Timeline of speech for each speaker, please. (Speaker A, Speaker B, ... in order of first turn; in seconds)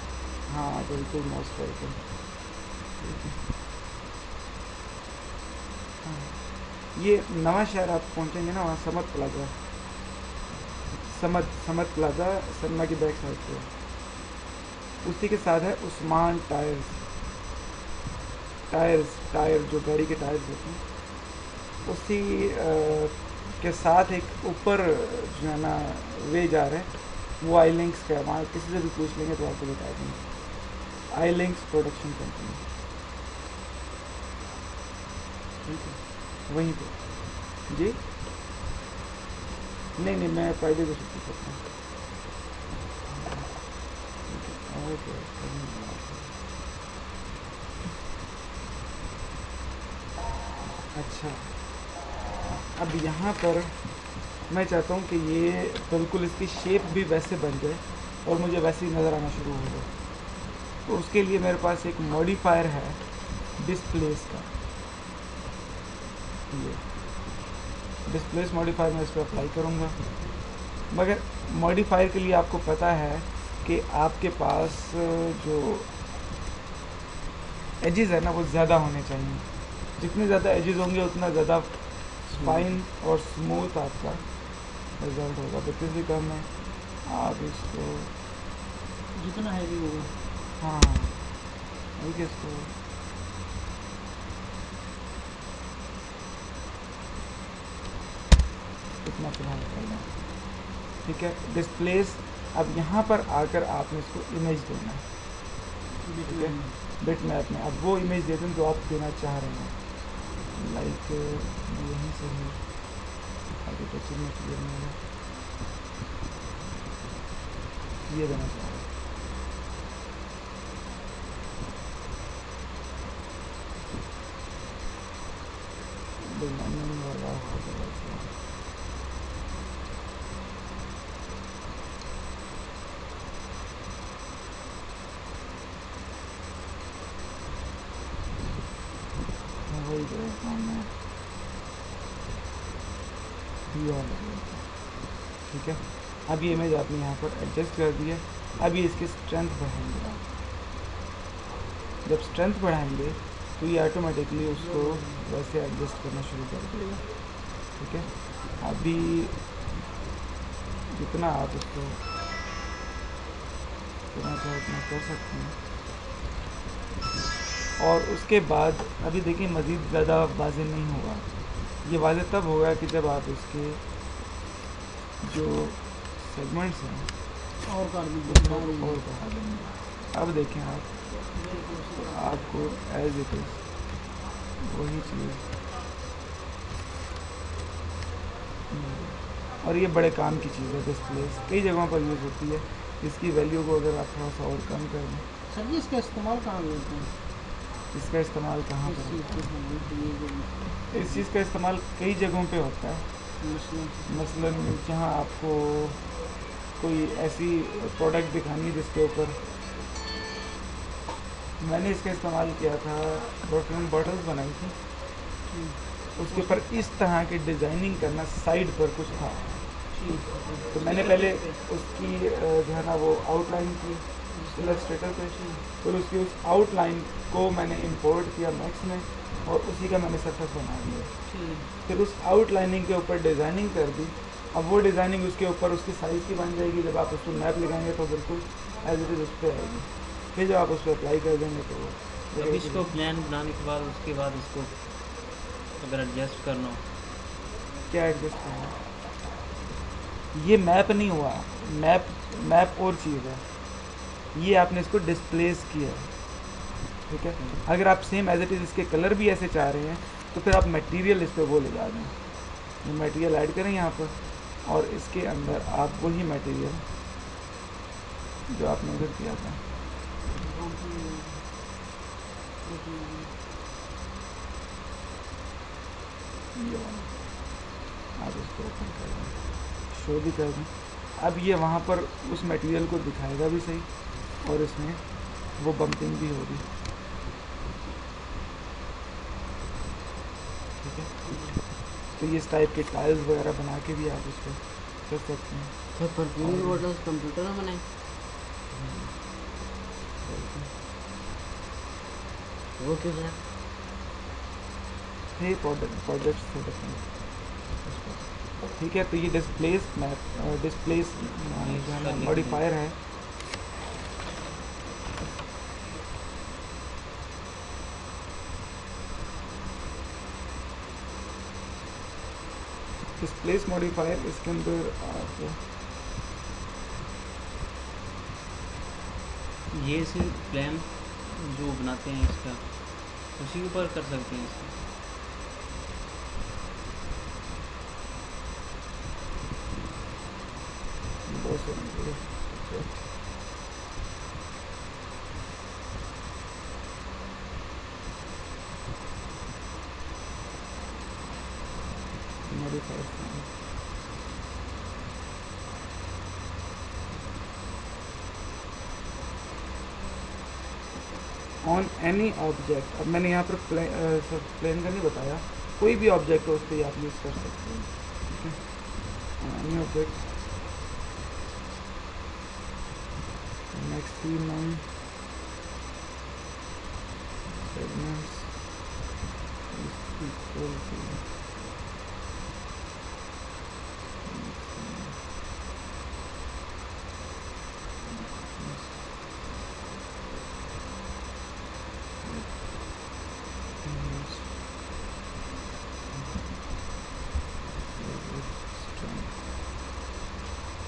Speaker A: 0.4-3.4, 6.0-9.5, 11.1-13.7, 15.0-17.0, 18.7-21.3, 21.8-32.6, 35.6-38.0, 39.9-41.6, 43.0-46.3, 50.9-51.8, 52.7-59.9, 60.8-64.5, 66.5-67.4, 68.0-70.0, 70.9-75.9, 77.8-88.1, 90.6-91.2, 91.9-92.7, 99.0-105.0, 106.2-115.0, 118.0-118.9, 126.2-128.3, 139.7-140.9, 143.7-150.2, 152.0-159.4, 160.9-162.0, 164.1-165.6, 167.8-173.8, 175.2-177.1, 178.2-181.3, 181.9-184.0, 184.6-185.4, 188.7-195.2, 197.9-199.5, 200.9-203.1, 204.1-206.1, 206.7-209.4, 211.6-214.8, 216.1-219.9, 220.7-242.9, 247.9-248.8, 250.3-256.3, 257.1-266.8, 268.5-269.6, 276.5-286.6, 290.8-296.8, 298.7-299.6, 300.2-300.7, 305.3-313.0, 323.2-325.6, 341.2-343.0, 352.4-353.5, 361.6-370.3, 373.7-374.9, 377.5-378.6, 379.7-381.2, 384.2-385.2, 388.1-389.0, 392.2-393.1, 393.8-394.5, 396.1-396.6, 397.9-399.3
Speaker B: 82.2-82.7, 242.3-246.8, 311.5-312.6, 329.7-334.8
Speaker C: 89.2-90.2, 106.0-106.8, 154.5-155.3, 156.7-157.1, 177.6-179.0, 181.3-182.7, 195.5-197.1, 198.8-201.2, 203.4-204.4, 215.5-216.6, 219.9-221.6, 224.3-225.6, 231.2-231.7, 270.2-271.5, 272.6-273.3, 291.2-291.6
Speaker D: 295.9-297.8, 302.8-303.4